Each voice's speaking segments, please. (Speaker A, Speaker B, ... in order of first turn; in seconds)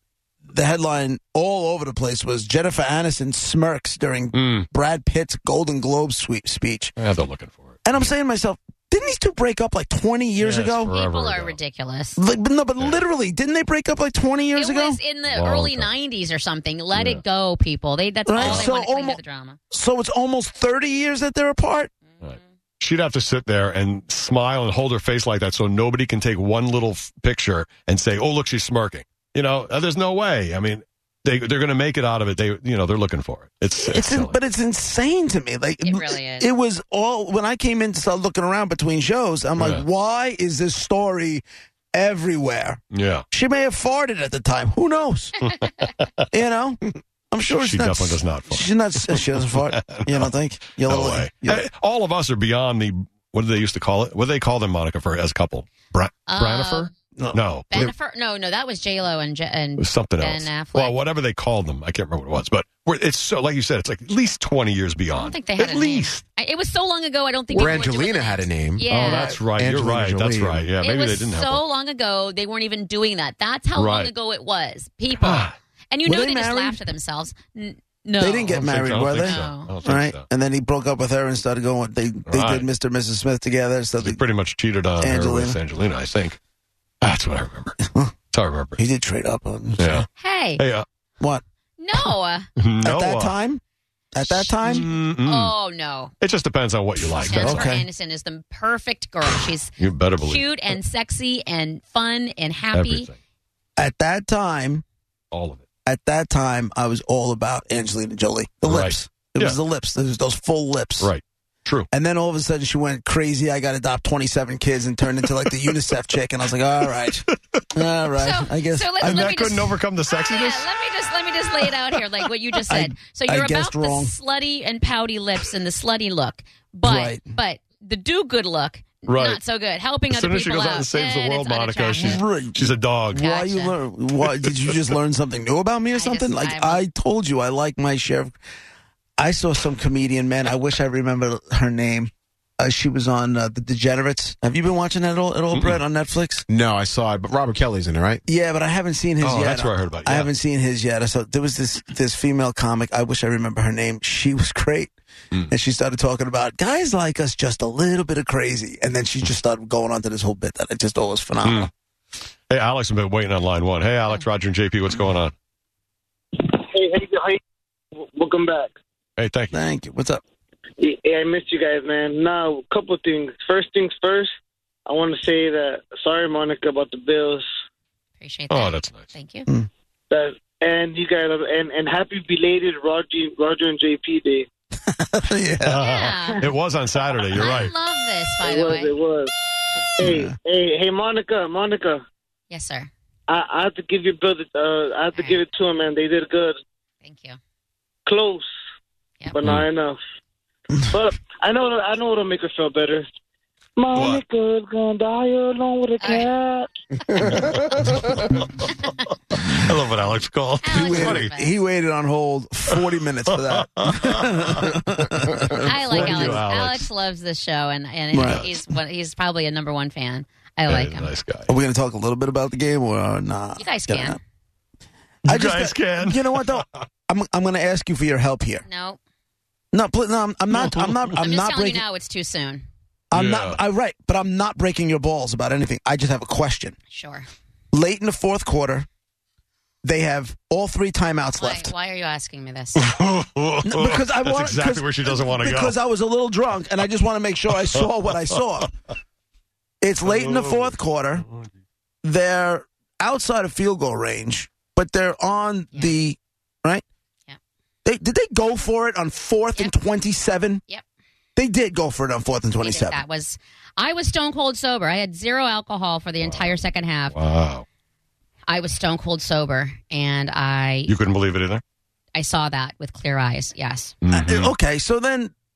Speaker A: 0.5-6.9, 7.8-10.9, 12.2-15.0, 18.2-21.9, 33.8-42.8, 43.3-45.3, 46.3-46.8, 47.3-51.6, 76.0-76.8, 78.2-84.2, 85.0-85.6, 87.8-88.1, 88.8-90.0, 92.8-93.6, 94.1-94.8, 97.3-97.9, 103.8-104.8, 105.8-111.1, 111.9-119.4, 122.7-124.1, 126.8-127.3, 131.9-138.3, 139.2-146.4, 148.3-154.9, 155.5-161.7, 169.5-170.2, 184.9-185.8, 190.0-190.3, 210.7-216.4, 218.1-218.6, 221.5-224.2, 225.3-228.6, 229.7-231.8, 233.1-236.8, 237.7-238.9, 239.8-241.7, 243.6-248.7, 249.8-251.2, 252.0-256.8, 257.8-260.6, 261.4-263.0, 274.1-275.3
Speaker B: 4.3-4.7, 7.0-8.1, 10.4-11.6, 15.3-15.9, 16.9-17.2, 18.4-18.7, 22.2-34.4, 39.6-39.8, 42.9-43.2, 45.4-46.3, 47.5-50.3, 50.9-57.8, 59.8-66.2, 68.9-71.6, 73.8-74.1, 75.2-75.5, 78.5-80.2, 82.3-82.7, 84.0-86.4, 87.0-87.8, 88.3-88.8, 89.8-90.0, 90.6-90.8, 92.6-93.3, 94.6-95.5, 96.2-97.7, 99.8-100.5, 102.7-103.1, 105.3-105.7, 108.6-109.6, 111.0-111.9, 119.0-120.7, 129.1-129.4, 130.1-133.2, 145.5-145.8, 149.2-150.3, 161.4-161.7, 162.5-165.3, 169.2-169.6, 178.5-179.1, 185.6-187.7, 203.9-204.2, 207.3-208.7, 209.5-211.3, 213.5-214.7, 215.8-216.9, 220.7-221.5, 225.2-226.6, 233.1-233.6, 242.8-245.7, 250.1-250.7, 266.2-267.6, 270.9-271.6, 274.0-274.5
Speaker C: 10.8-12.2, 14.5-19.6, 22.1-22.4, 35.8-36.5, 56.3-56.9, 57.7-61.0, 65.1-69.3, 70.8-78.6, 79.2-79.7, 90.2-90.6, 91.8-92.5, 94.3-96.1, 97.2-103.1, 118.2-132.2, 133.1-133.7, 135.9-136.8, 178.2-179.5, 185.8-186.4, 187.3-188.9, 192.5-192.9, 195.1-195.4, 197.0-197.4, 206.0-206.3, 208.7-209.1, 210.6-211.5, 215.6-221.1, 223.6-224.2, 228.6-229.0, 231.1-232.6, 236.9-237.2, 241.3-242.8, 255.7-256.0, 262.6-267.1, 268.5-270.9, 272.1-273.9
Speaker D: 67.5-70.7, 146.5-148.2
Speaker E: 166.4-167.4, 168.0-168.7, 170.8-174.3, 174.8-177.4, 180.1-184.5, 188.4-189.3, 190.0-192.0, 193.3-196.6, 198.1-198.5, 199.3-200.0, 200.9-203.1, 203.8-206.7